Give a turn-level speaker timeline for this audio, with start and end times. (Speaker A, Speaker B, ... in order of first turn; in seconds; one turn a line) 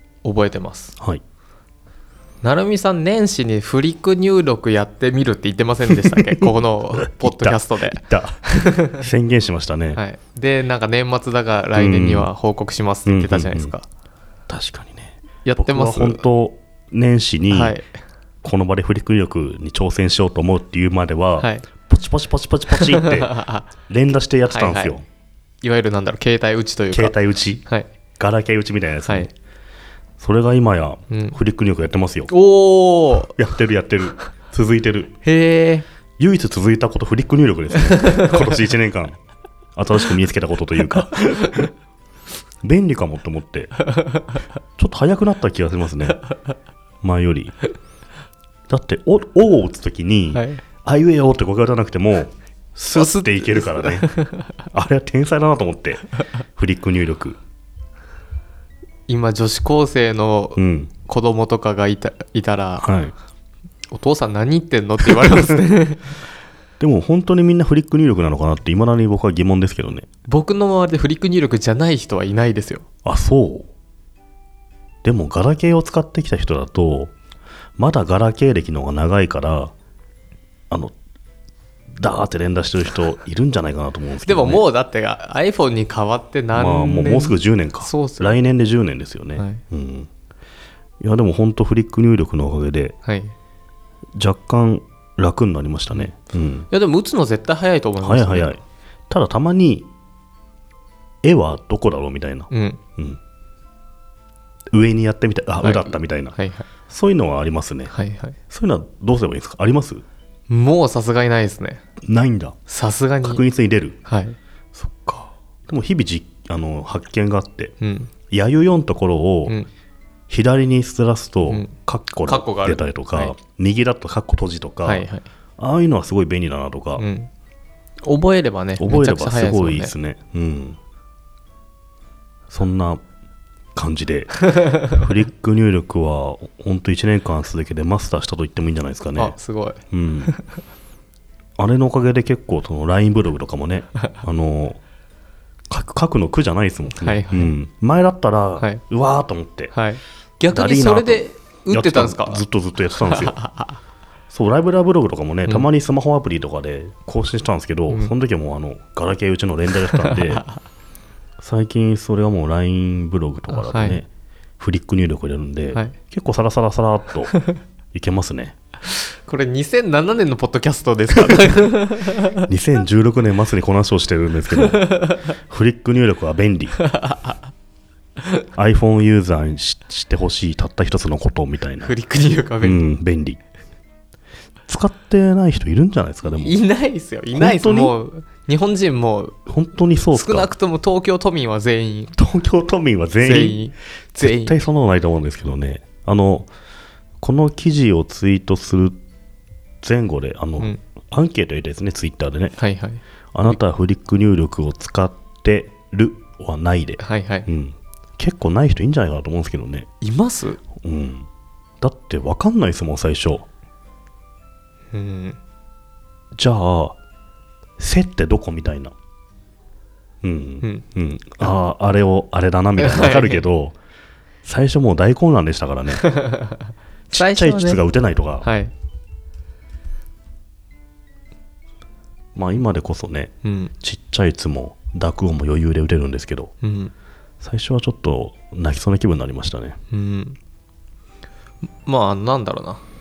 Speaker A: 0.2-0.9
Speaker B: 1.0-1.2
Speaker A: 2.4-9.1
Speaker B: 5.9-10.0
Speaker A: 9.9-13.8
Speaker B: 11.7-12.3
Speaker B: 13.1-13.7
Speaker B: 14.5-17.8
Speaker A: 15.4-16.2
Speaker A: 17.5-17.9
Speaker B: 18.4-23.4
Speaker A: 21.4-21.6
Speaker A: 22.7-23.7
Speaker B: 23.9-25.0
Speaker A: 24.5-25.0
Speaker A: 25.6-27.9
Speaker B: 26.9-27.6
Speaker B: 28.2-29.3
Speaker B: 30.2-32.3
Speaker A: 31.1-31.4
Speaker A: 32.3-33.3
Speaker B: 33.2-35.1
Speaker A: 35.2-35.8
Speaker B: 36.2-39.1
Speaker A: 37.9-38.3
Speaker B: 39.8-41.7
Speaker B: 42.6-43.8
Speaker B: 44.8-46.2
Speaker B: 47.0-47.6
Speaker B: 48.7-54.1
Speaker A: 50.3-50.6
Speaker A: 52.9-54.5
Speaker B: 54.7-57.4
Speaker A: 59.1-62.9
Speaker B: 60.6-60.9
Speaker B: 62.8-63.1
Speaker A: 63.9-66.1
Speaker B: 65.2-65.5
Speaker B: 66.8-70.1
Speaker A: 70.2-72.8
Speaker B: 73.0-73.7
Speaker B: 75.0-77.1
Speaker B: 77.8-79.7
Speaker B: 82.0-84.6
Speaker A: 84.2-88.4
Speaker B: 86.5-90.1
Speaker A: 89.4-89.6
Speaker B: 91.0-93.0
Speaker A: 93.0-93.3
Speaker B: 94.2-96.7
Speaker A: 96.7-98.6
Speaker B: 98.0-99.9
Speaker B: 101.2-103.2
Speaker A: 102.5-102.8
Speaker B: 104.7-106.3
Speaker A: 105.6-106.7
Speaker B: 106.9-107.9
Speaker A: 107.9-108.4
Speaker B: 108.5-110.0
Speaker A: 110.5-111.8
Speaker B: 112.0-112.6
Speaker A: 112.7-113.4
Speaker B: 113.2-114.0
Speaker A: 114.0-114.4
Speaker B: 114.7-117.7
Speaker A: 117.8-118.1
Speaker B: 118.3-119.6
Speaker B: 120.3-125.1
Speaker A: 122.2-123.3
Speaker A: 124.8-125.2
Speaker B: 125.6-127.1
Speaker A: 127.0-127.3
Speaker A: 128.0-129.9
Speaker B: 128.8-130.8
Speaker B: 132.5-133.0
Speaker B: 133.7-139.3
Speaker A: 139.2-140.4
Speaker B: 139.9-140.3
Speaker B: 141.6-144.8
Speaker B: 145.7-149.7
Speaker A: 146.9-147.5
Speaker A: 149.7-152.4
Speaker B: 150.5-153.4
Speaker A: 153.0-153.8
Speaker B: 154.3-160.4
Speaker A: 159.9-160.5
Speaker B: 161.4-164.1
Speaker A: 163.5-164.0
Speaker B: 164.6-167.3
Speaker B: 167.9-168.6
Speaker A: 168.9-172.5
Speaker B: 172.4-176.8
Speaker A: 174.5-175.3
Speaker A: 176.8-177.4
Speaker B: 178.5-181.9
Speaker A: 181.8-182.8
Speaker B: 182.6-183.4
Speaker B: 184.7-186.6
Speaker A: 186.3-189.3
Speaker B: 187.3-187.9
Speaker B: 189.4-190.5
Speaker A: 190.1-192.1
Speaker B: 192.2-193.6
Speaker A: 193.2-194.6
Speaker B: 194.2-196.5
Speaker B: 197.2-199.0
Speaker B: 199.8-202.6
Speaker A: 202.6-203.0
Speaker B: 203.3-209.9
Speaker A: 207.0-207.5
Speaker A: 210.0-210.6
Speaker B: 210.8-211.2
Speaker B: 211.8-213.4
Speaker A: 214.9-215.4
Speaker B: 216.4-217.0
Speaker B: 217.8-218.9
Speaker B: 220.2-223.8
Speaker A: 222.8-223.4
Speaker B: 224.4-226.1
Speaker A: 226.1-226.6
Speaker B: 227.1-228.5
Speaker A: 227.1-227.8
Speaker A: 228.4-228.7
Speaker B: 232.3-236.5
Speaker A: 233.4-233.7
Speaker A: 236.6-236.9
Speaker B: 237.4-239.8
Speaker A: 239.9-240.4
Speaker A: 241.8-242.8